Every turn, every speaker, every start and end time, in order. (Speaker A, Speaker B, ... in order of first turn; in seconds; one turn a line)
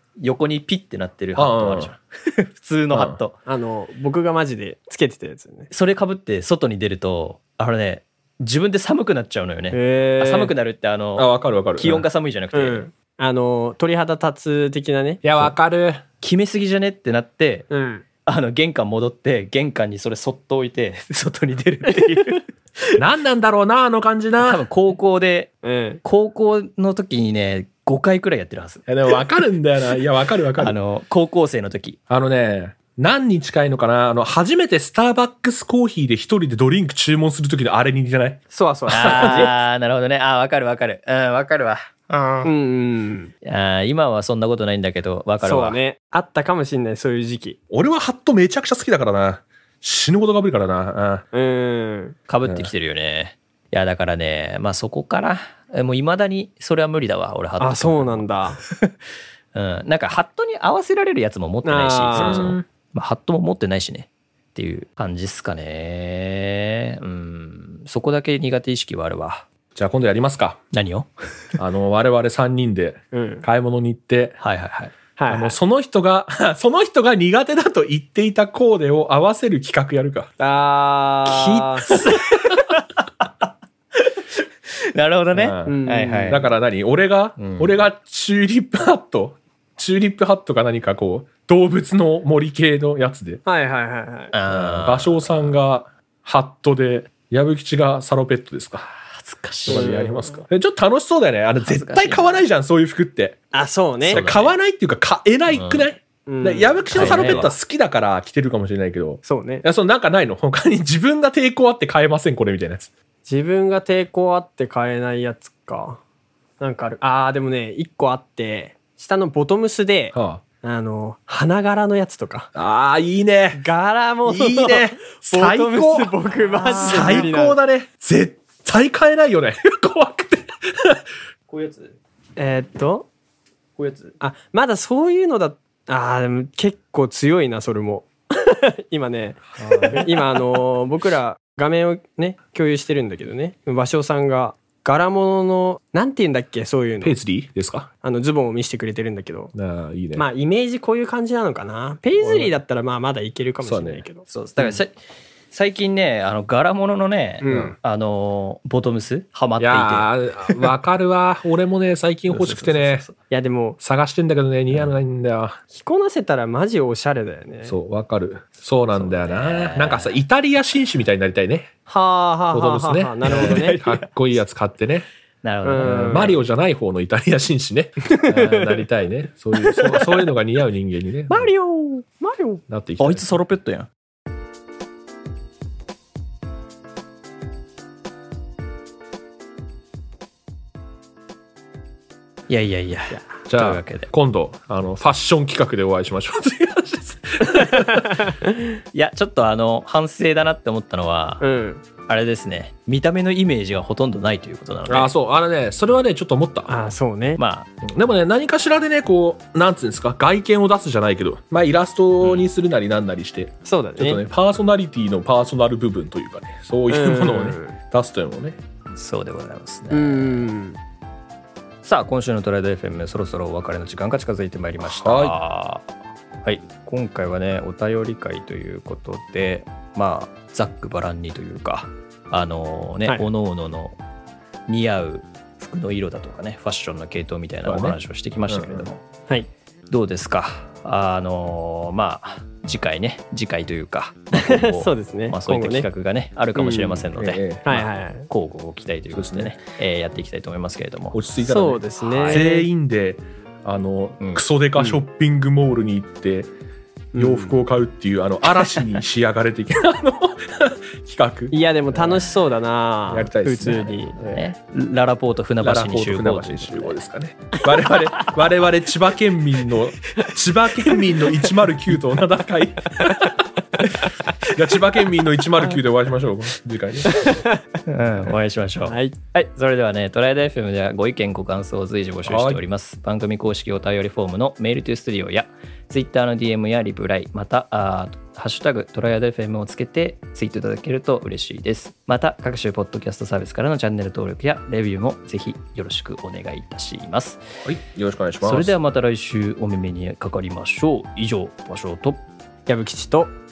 Speaker A: 0.2-3.4
Speaker B: 1.4-1.9
Speaker B: 2.9-3.2
Speaker C: 3.5-5.7
Speaker A: 5.7-12.9
Speaker C: 9.7-10.5
Speaker B: 11.2-12.1
Speaker C: 12.5-15.2
Speaker B: 15.2-16.0
Speaker A: 16.2-17.7
Speaker C: 17.7-18.1
Speaker A: 18.2-23.0
Speaker B: 23.0-24.6
Speaker A: 24.4-25.5
Speaker C: 25.6-26.0
Speaker A: 26.0-28.9
Speaker B: 28.9-30.8
Speaker A: 30.6-32.0
Speaker B: 32.1-39.5
Speaker C: 38.5-39.6
Speaker A: 38.9-42.5
Speaker C: 42.5-43.3
Speaker A: 43.4-45.8
Speaker C: 45.4-47.6
Speaker B: 47.7-51.2
Speaker C: 51.3-52.2
Speaker A: 52.3-59.0
Speaker B: 52.5-52.7
Speaker C: 57.6-58.6
Speaker A: 59.5-69.5
Speaker C: 61.6-62.6
Speaker B: 62.2-62.6
Speaker B: 69.8-70.6
Speaker A: 70.7-71.1
Speaker B: 71.6-74.4
Speaker C: 73.1-73.5
Speaker A: 74.4-75.0
Speaker C: 75.2-75.6
Speaker B: 75.3-80.3
Speaker C: 80.4-82.0
Speaker A: 81.3-86.5
Speaker B: 85.3-93.4
Speaker C: 85.7-86.4
Speaker A: 87.4-87.8
Speaker C: 93.5-94.3
Speaker A: 94.3-95.3
Speaker B: 94.5-98.9
Speaker A: 99.0-100.0
Speaker C: 99.7-100.4
Speaker B: 99.7-103.4
Speaker A: 101.6-102.4
Speaker C: 103.5-104.2
Speaker A: 104.1-104.5
Speaker B: 104.1-112.9
Speaker A: 105.5-105.8
Speaker C: 106.3-107.6
Speaker A: 106.9-107.5
Speaker C: 109.2-109.7
Speaker C: 113.3-116.0
Speaker C: 116.6-122.5
Speaker B: 120.1-120.4
Speaker B: 122.5-123.6
Speaker C: 123.5-127.6
Speaker B: 124.3-126.2
Speaker A: 126.4-127.3
Speaker B: 126.8-131.0
Speaker A: 131.5-132.0
Speaker C: 132.4-133.1
Speaker A: 133.8-134.2
Speaker C: 134.2-147.2
Speaker B: 139.6-140.0
Speaker A: 139.6-140.0
Speaker B: 147.0-147.9
Speaker C: 148.0-149.5
Speaker B: 149.5-150.3
Speaker C: 150.2-154.3
Speaker B: 152.2-152.6
Speaker B: 153.6-154.1
Speaker A: 154.3-155.0
Speaker A: 155.5-160.1
Speaker C: 157.4-157.8
Speaker B: 157.5-157.8
Speaker B: 159.6-163.1
Speaker A: 162.3-163.1
Speaker C: 163.2-163.8
Speaker B: 163.8-165.6
Speaker C: 165.7-167.8
Speaker B: 167.7-171.7
Speaker A: 168.9-170.2
Speaker C: 171.9-173.8
Speaker B: 172.5-175.1
Speaker A: 173.3-174.1
Speaker A: 175.4-176.4
Speaker C: 175.6-176.4
Speaker B: 175.8-181.5
Speaker C: 178.3-178.6
Speaker C: 181.3-182.6
Speaker B: 182.7-183.4
Speaker A: 183.0-183.9
Speaker A: 192.5-194.1
Speaker B: 193.5-198.3
Speaker C: 198.3-198.6
Speaker A: 198.9-201.4
Speaker C: 201.4-201.8
Speaker A: 202.1-205.1
Speaker B: 204.9-206.7
Speaker C: 206.7-207.4
Speaker A: 207.4-207.7
Speaker B: 207.8-218.6
Speaker A: 212.2-212.5
Speaker C: 213.7-214.2
Speaker C: 216.9-217.8
Speaker A: 218.9-220.5
Speaker C: 219.9-220.8
Speaker A: 221.8-234.0
Speaker B: 224.8-225.3
Speaker A: 234.7-239.0
Speaker B: 237.7-238.9
Speaker A: 239.9-251.2
Speaker C: 244.3-245.9
Speaker C: 246.6-247.1
Speaker B: 247.2-247.7
Speaker C: 247.6-248.3
Speaker B: 249.1-249.6
Speaker B: 251.1-256.5
Speaker C: 251.4-252.7
Speaker A: 252.0-252.4
Speaker C: 257.1-257.6
Speaker B: 257.2-262.2
Speaker C: 261.5-264.2
Speaker B: 263.1-264.5
Speaker A: 264.2-267.0
Speaker B: 265.6-273.5
Speaker B: 274.4-277.2
Speaker A: 277.9-297.4
Speaker C: 278.9-279.2
Speaker B: 282.3-282.6
Speaker B: 297.6-298.7
Speaker A: 298.4-302.2
Speaker C: 302.7-303.3